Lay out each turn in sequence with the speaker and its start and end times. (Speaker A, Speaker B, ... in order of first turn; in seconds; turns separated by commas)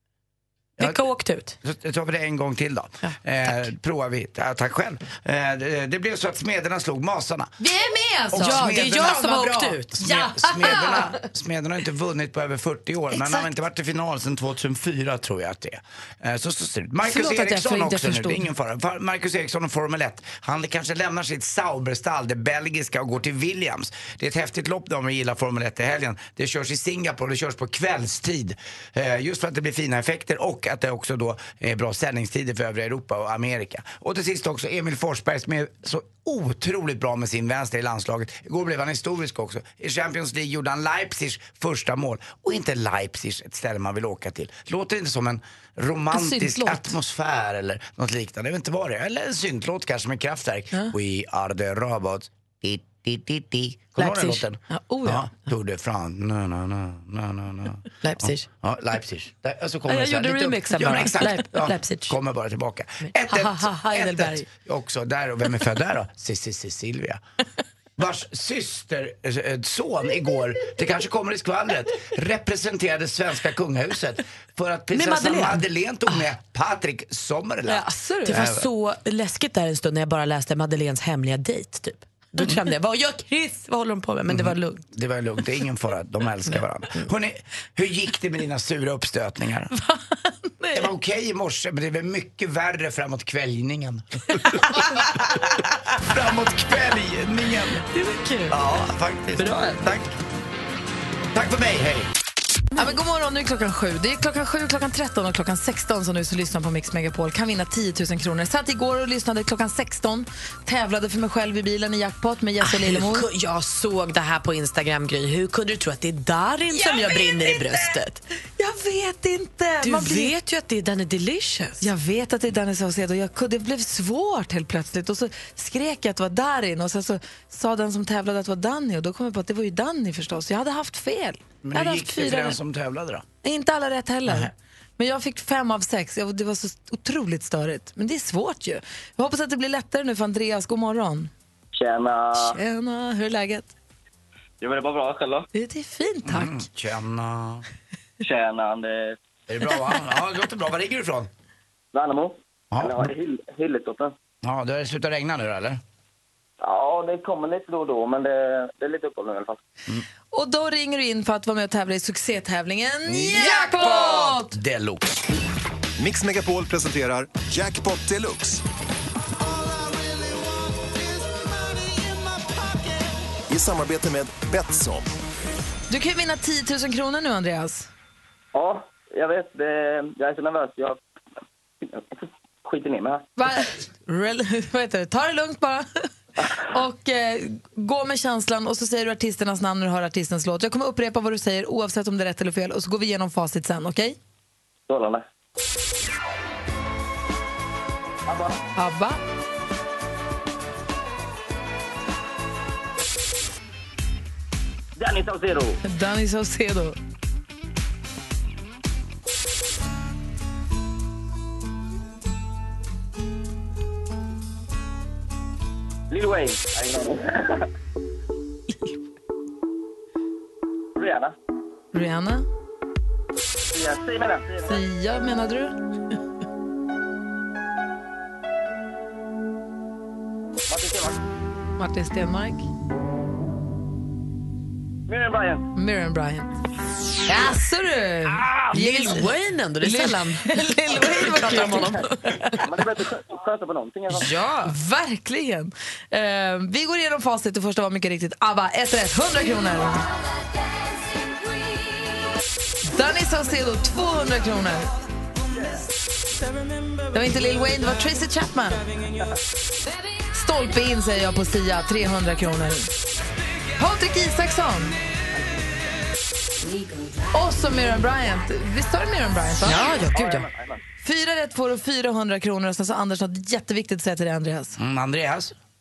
Speaker A: 0.8-1.0, Speaker B: 0.8-1.5, Speaker A: 1.6-7.5, Speaker C: 7.6-11.2, Speaker A: 8.3-67.2, Speaker B: 8.3-10.1, Speaker B: 10.6-10.9, Speaker C: 17.0-18.5, Speaker C: 46.1-46.9, Speaker B: 54.0-54.4, Speaker C: 54.7-55.3, Speaker B: 58.0-58.5, Speaker B: 59.9-62.1, Speaker B: 63.0-64.4, Speaker A: 68.0-78.7, Speaker B: 74.9-75.6, Speaker C: 77.7-78.4, Speaker B: 78.2-84.8, Speaker A: 84.3-89.7, Speaker A: 90.7-97.8, Speaker B: 97.9-98.6, Speaker A: 98.5-100.1, Speaker B: 99.4-99.8, Speaker A: 101.3-102.1, Speaker C: 102.8-113.2, Speaker B: 112.6-118.2, Speaker C: 116.7-117.9, Speaker C: 118.6-120.3, Speaker B: 119.8-121.9, Speaker C: 121.8-132.6, Speaker A: 131.6-133.2, Speaker C: 133.4-141.3, Speaker A: 134.3-134.5, Speaker D: 141.7-142.6, Speaker C: 142.3-143.7, Speaker D: 144.6-145.5, Speaker C: 145.5-146.6, Speaker A: 146.2-147.6, Speaker D: 148.2-149.2, Speaker A: 149.5-151.3, Speaker D: 151.9-154.1, Speaker A: 152.7-153.1, Speaker A: 154.4-155.8, Speaker D: 156.6-159.6, Speaker C: 160.3-164.6, Speaker A: 163.1-165.3, Speaker E: 166.0-168.6, Speaker E: 169.5-172.9, Speaker E: 173.5-175.1, Speaker C: 175.9-177.9, Speaker D: 178.5-181.0, Speaker D: 181.8-183.2, Speaker C: 183.3-194.2, Speaker D: 194.9-195.2, Speaker D: 198.3-198.6, Speaker C: 198.8-199.2, Speaker D: 205.0-205.8, Speaker C: 205.8-207.0, Speaker D: 216.1-217.7, Speaker D: 220.9-221.3, Speaker C: 221.9-222.4, Speaker D: 223.7-224.8, Speaker C: 224.6-225.8, Speaker D: 230.7-231.2, Speaker C: 231.8-232.7, Speaker D: 235.1-235.7, Speaker C: 235.7-236.5, Speaker C: 237.3-242.6, Speaker B: 238.7-242.5, Speaker D: 242.6-244.3, Speaker B: 244.1-244.7, Speaker C: 244.6-250.1, Speaker C: 252.8-254.9, Speaker D: 255.5-255.8, Speaker C: 257.1-258.9, Speaker C: 260.3-262.9, Speaker C: 263.8-265.0, Speaker C: 267.3-269.9, Speaker B: 269.6-270.4, Speaker D: 270.0-270.8, Speaker C: 271.0-274.8, Speaker A: 274.8-275.5